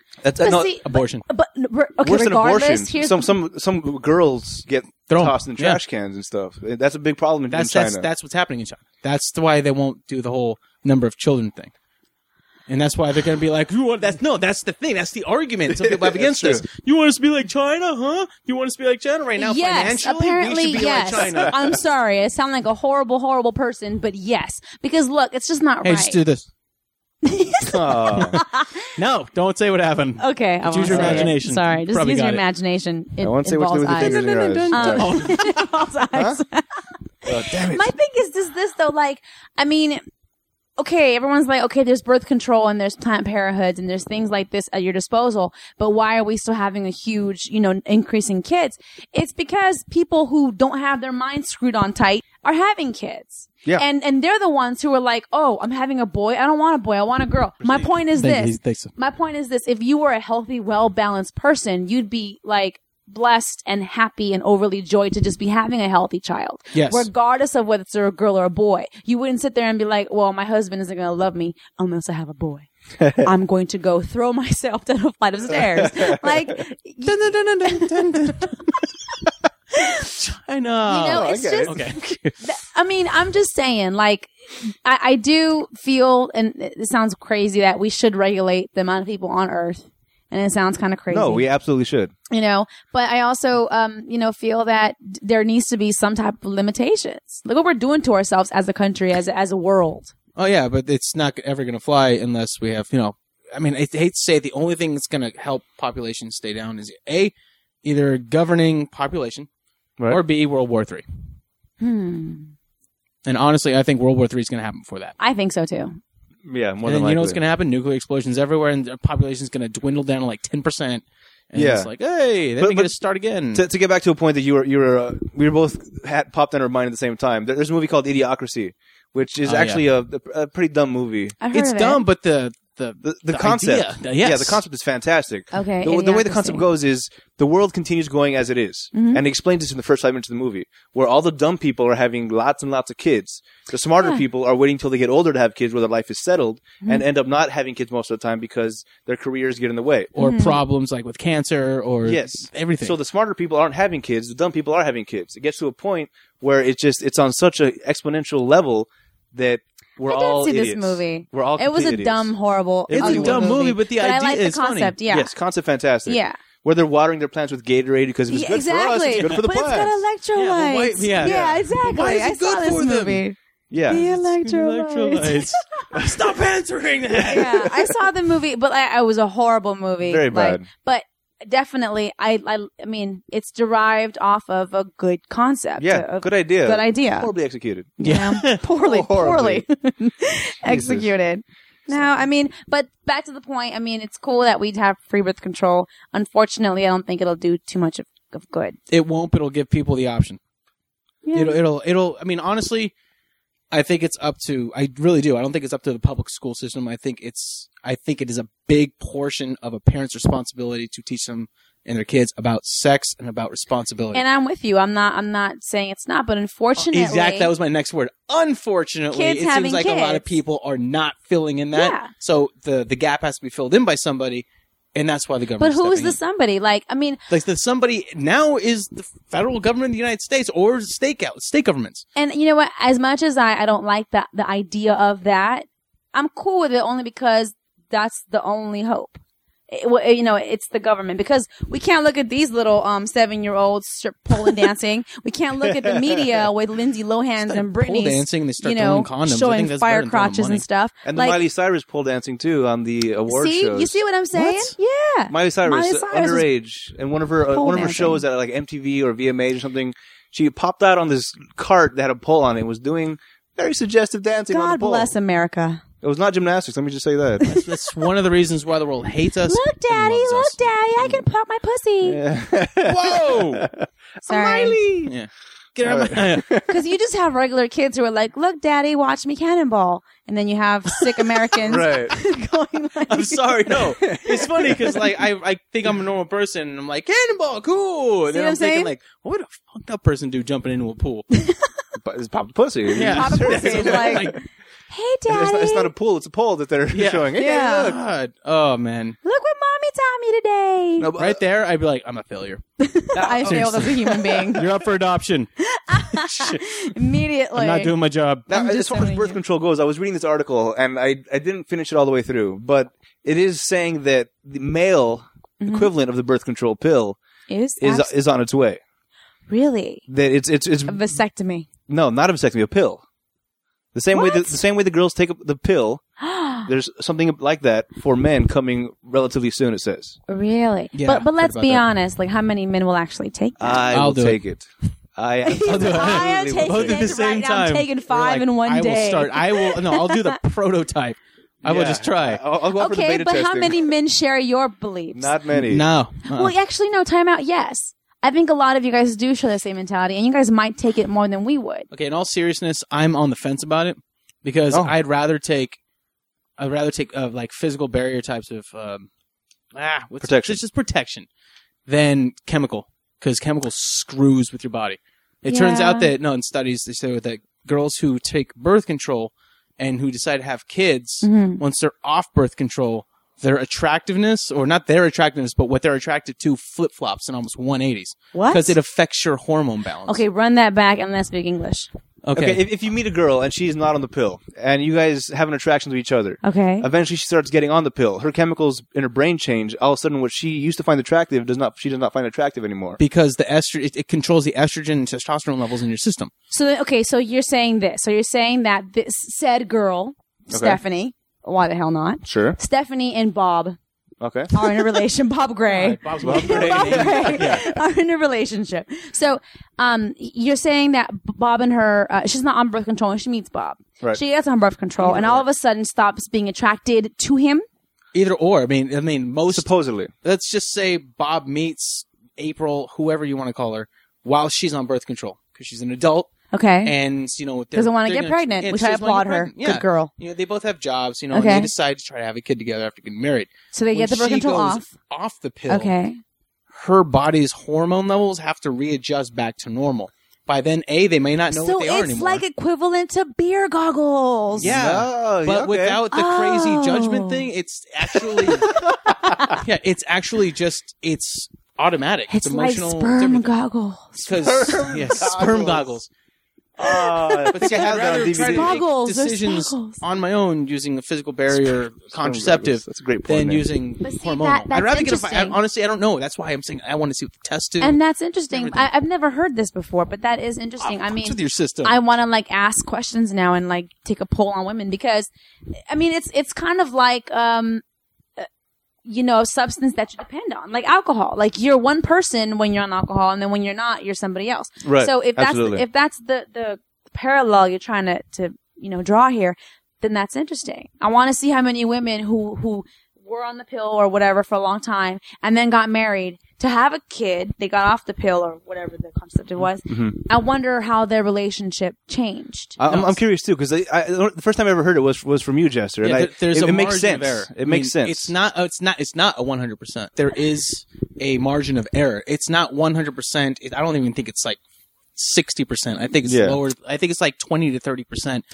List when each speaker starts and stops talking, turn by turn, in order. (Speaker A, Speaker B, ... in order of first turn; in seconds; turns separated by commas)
Speaker A: 0.2-0.7, Speaker B: 0.4-3.3, Speaker C: 0.8-1.2, Speaker A: 2.0-8.1, Speaker C: 5.1-5.8, Speaker C: 7.5-11.7, Speaker C: 12.7-21.6, Speaker A: 15.7-16.6, Speaker B: 19.4-26.2, Speaker C: 25.8-26.4, Speaker B: 27.2-28.8, Speaker A: 27.6-28.4, Speaker C: 28.1-28.4, Speaker C: 28.9-32.4, Speaker B: 30.2-36.7, Speaker A: 30.8-31.3, Speaker A: 33.2-35.3, Speaker C: 34.0-35.7, Speaker A: 37.2-37.9, Speaker B: 37.2-40.0, Speaker B: 40.8-78.6, Speaker A: 57.6-57.9, Speaker C: 58.1-58.9, Speaker C: 66.7-67.1, Speaker A: 73.0-73.3, Speaker A: 75.5-76.5, Speaker C: 77.1-78.8, Speaker B: 79.8-80.2, Speaker C: 79.8-82.3, Speaker B: 80.9-81.8, Speaker A: 81.0-81.8, Speaker B: 82.4-91.4, Speaker A: 91.1-92.1, Speaker B: 92.3-100.1, Speaker C: 100.3-107.3, Speaker C: 107.8-109.5, Speaker C: 110.1-111.0, Speaker B: 111.8-112.5, Speaker C: 113.2-115.1, Speaker B: 115.2-116.0, Speaker A: 116.4-117.4, Speaker C: 116.8-123.6, Speaker A: 121.5-121.9, Speaker A: 122.6-122.9, Speaker A: 123.5-131.4, Speaker C: 129.4-129.8, Speaker B: 131.4-132.0, Speaker C: 131.5-134.6, Speaker A: 133.0-150.1, Speaker B: 135.5-136.7, Speaker B: 138.9-139.2, Speaker C: 150.1-153.0, Speaker B: 150.2-150.6, Speaker A: 152.0-162.3, Speaker B: 160.0-165.3, Speaker A: 162.9-163.6, Speaker C: 162.9-164.9, Speaker A: 165.1-170.0, Speaker B: 166.1-166.4, Speaker B: 168.3-175.8, Speaker C: 169.2-169.4, Speaker C: 170.3-173.2, Speaker A: 173.7-174.1, Speaker C: 173.9-177.8, Speaker B: 177.2-187.3, Speaker A: 180.1-180.7, Speaker A: 185.8-188.0, Speaker B: 188.0-198.8, Speaker C: 188.0-188.6, Speaker A: 188.6-189.7, Speaker A: 190.7-191.1, Speaker C: 198.9-200.4, Speaker B: 201.2-201.6, Speaker C: 201.3-202.9, Speaker C: 203.7-214.2, Speaker B: 214.1-217.5, Speaker C: 216.8-226.2, Speaker B: 219.1-220.3, Speaker B: 221.7-222.1, Speaker B: 225.6-227.2, Speaker C: 227.3-232.0, Speaker B: 232.2-251.4, Speaker A: 245.6-246.4, Speaker C: 247.5-250.6, Speaker A: 251.0-254.7, Speaker B: 253.3-256.5, Speaker A: 255.3-265.1, Speaker B: 257.5-258.2, Speaker B: 264.5-265.8, Speaker A: 266.0-267.4, Speaker B: 267.4-267.7, Speaker C: 267.5-270.6, Speaker B: 269.5-272.2, Speaker A: 272.0-273.9, Speaker C: 272.8-273.7, Speaker B: 274.2-274.8, Speaker C: 274.3-276.5, Speaker A: 275.8-276.7, Speaker B: 276.6-283.8, Speaker A: 281.6-282.1, Speaker C: 283.1-291.3, Speaker A: 283.8-285.0, Speaker B: 288.3-288.9, Speaker A: 292.0-294.4, Speaker C: 292.9-294.4, Speaker B: 293.0-295.9, Speaker A: 295.3-298.0, Speaker C: 296.9-299.2, Speaker B: 297.4-297.9, Speaker B: 299.2-301.1, Speaker A: 301.0-301.4, Speaker C: 301.2-302.6, Speaker B: 302.8-304.6, Speaker A: 303.1-304.1, Speaker C: 303.2-305.5, Speaker B: 305.6-307.9, Speaker C: 306.1-306.7, Speaker C: 307.5-308.5, Speaker A: 308.5-317.2, Speaker B: 308.5-309.4, Speaker B: 315.6-315.9, Speaker B: 317.5-318.1, Speaker A: 317.8-318.8, Speaker B: 319.5-320.0, Speaker A: 320.1-321.1, Speaker B: 320.9-321.7, Speaker A: 321.9-323.0, Speaker A: 323.9-326.0, Speaker B: 324.1-324.6, Speaker B: 326.2-326.7, Speaker A: 326.6-330.2, Speaker B: 330.3-333.9, Speaker C: 330.9-331.9, Speaker A: 333.6-337.0, Speaker C: 333.9-334.4, Speaker B: 335.4-340.2, Speaker C: 335.6-342.4, Speaker A: 341.6-343.8, Speaker B: 342.8-345.3, Speaker A: 345.1-345.8, Speaker C: 345.5-346.5, Speaker B: 346.3-351.9, Speaker C: 351.9-355.8, Speaker C: 356.6-359.1, Speaker C: 359.7-361.3, Speaker A: 360.2-360.6, Speaker C: 361.9-380.2, Speaker B: 365.5-366.1, Speaker B: 371.2-371.6, Speaker B: 378.3-378.8, Speaker B: 380.1-381.9, Speaker C: 382.2-382.6, Speaker A: 382.3-393.0, Speaker B: 386.4-386.9, Speaker C: 393.0-396.3, Speaker B: 396.5-403.8, Speaker A: 400.5-400.8, Speaker A: 402.2-402.6, Speaker A: 404.2-404.5, Speaker B: 404.5-417.6, Speaker C: 405.7-407.6, Speaker A: 406.2-407.6, Speaker C: 415.0-415.4, Speaker C: 418.1-419.7, Speaker A: 419.5-420.1, Speaker C: 420.2-426.3, Speaker B: 426.5-426.9, Speaker C: 426.8-436.0, Speaker B: 427.7-430.1, Speaker B: 431.3-431.7, Speaker B: 433.7-434.9, Speaker B: 435.7-436.2, Speaker C: 436.7-442.4, Speaker B: 441.5-444.7, Speaker C: 444.6-448.7, Speaker A: 444.6-446.0, Speaker B: 446.1-447.4, Speaker B: 448.3-449.6, Speaker A: 448.6-449.6, Speaker C: 449.6-453.5, Speaker B: 452.3-454.3, Speaker C: 454.2-456.1, Speaker A: 454.4-456.0, Speaker A: 456.8-458.8, Speaker B: 456.9-460.0, Speaker C: 457.5-468.0, Speaker A: 461.5-463.6, Speaker B: 464.0-465.6, Speaker B: 467.8-475.3, Speaker C: 468.5-468.9, Speaker C: 470.8-471.9, Speaker B: 475.9-477.8, Speaker B: 479.0-502.8, Speaker A: 484.8-485.8, Speaker A: 499.9-500.1, Speaker A: 502.8-508.3, Speaker C: 502.9-503.2, Speaker C: 506.0-514.6, Speaker C: 515.1-518.4, Speaker A: 516.2-516.6